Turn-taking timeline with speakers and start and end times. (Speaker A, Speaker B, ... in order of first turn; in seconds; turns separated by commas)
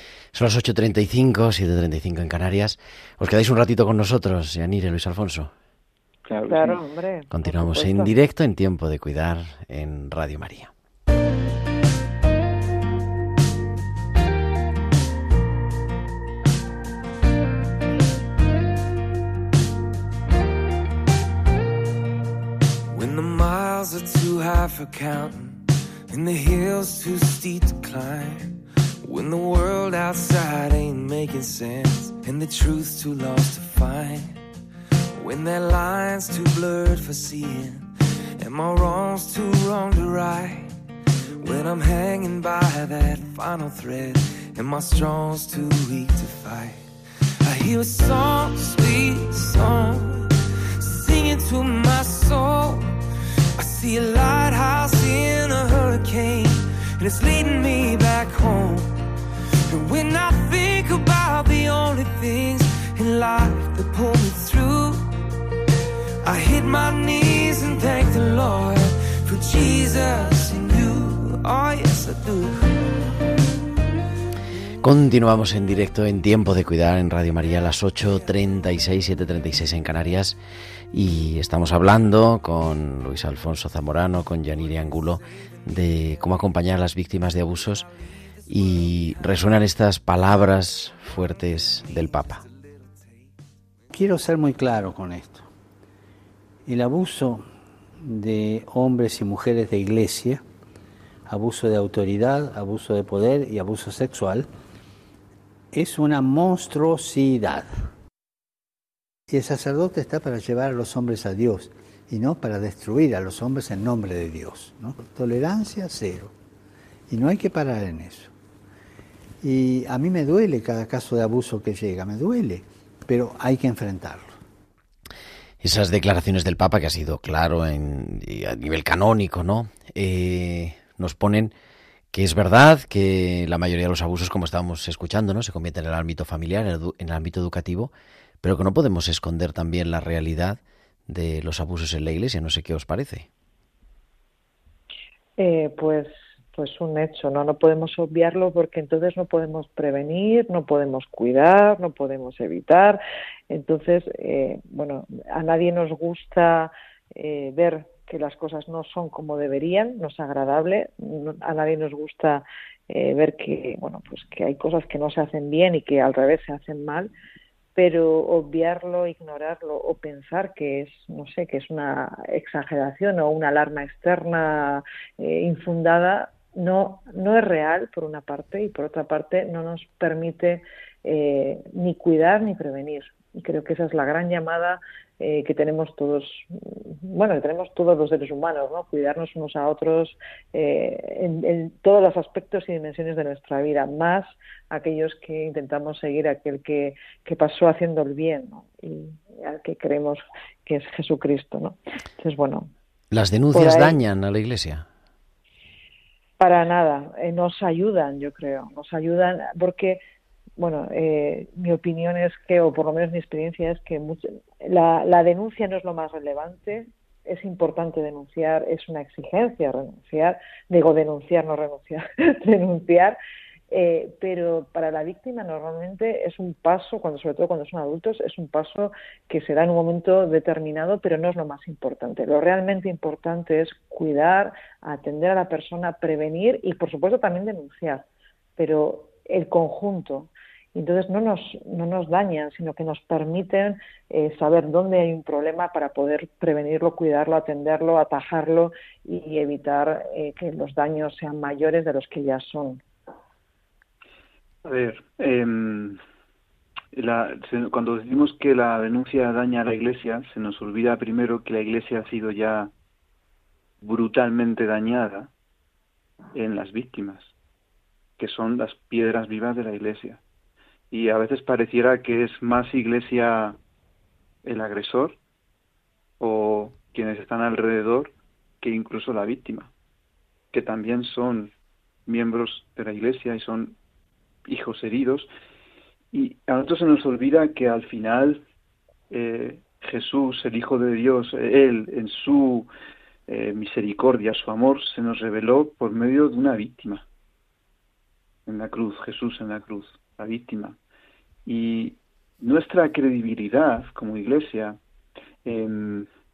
Speaker A: 0.3-5.5, Speaker B: 6.3-6.8, Speaker C: 6.5-8.1, Speaker A: 7.3-10.7, Speaker D: 22.9-34.4, Speaker D: 35.1-40.7, Speaker D: 41.4-46.9, Speaker D: 47.4-50.3, Speaker D: 50.8-52.9, Speaker D: 53.6-59.0, Speaker D: 59.7-65.1, Speaker D: 66.2-72.8, Speaker A: 74.8-80.4, Speaker A: 80.9-87.8, Speaker A: 88.5-92.4, Speaker D: 92.2-93.3, Speaker E: 93.9-95.5, Speaker E: 96.6-97.4, Speaker E: 98.0-100.4, Speaker E: 101.3-104.5, Speaker E: 105.7-107.8, Speaker E: 109.3-116.3, Speaker E: 117.1-118.3, Speaker E: 119.4-124.4, Speaker A: 125.6-131.5, Speaker A: 132.1-143.3, Speaker C: 145.4-167.1, Speaker C: 167.7-202.7, Speaker A: 203.1-204.8, Speaker C: 203.5-204.0, Speaker C: 206.4-210.0, Speaker C: 210.6-223.2, Speaker C: 223.7-238.1, Speaker C: 238.6-252.8, Speaker B: 254.6-256.0, Speaker B: 256.9-262.7, Speaker B: 263.8-265.3, Speaker B: 266.3-267.3, Speaker B: 268.2-270.2, Speaker B: 270.9-273.6, Speaker B: 274.4-275.2, Speaker B: 276.2-279.7, Speaker B: 280.5-281.5, Speaker B: 282.1-283.8, Speaker B: 284.4-285.3, Speaker B: 286.1-288.4, Speaker B: 289.1-292.7, Speaker B: 293.3-297.0, Speaker B: 298.4-300.8, Speaker B: 301.4-304.8, Speaker B: 305.4-306.1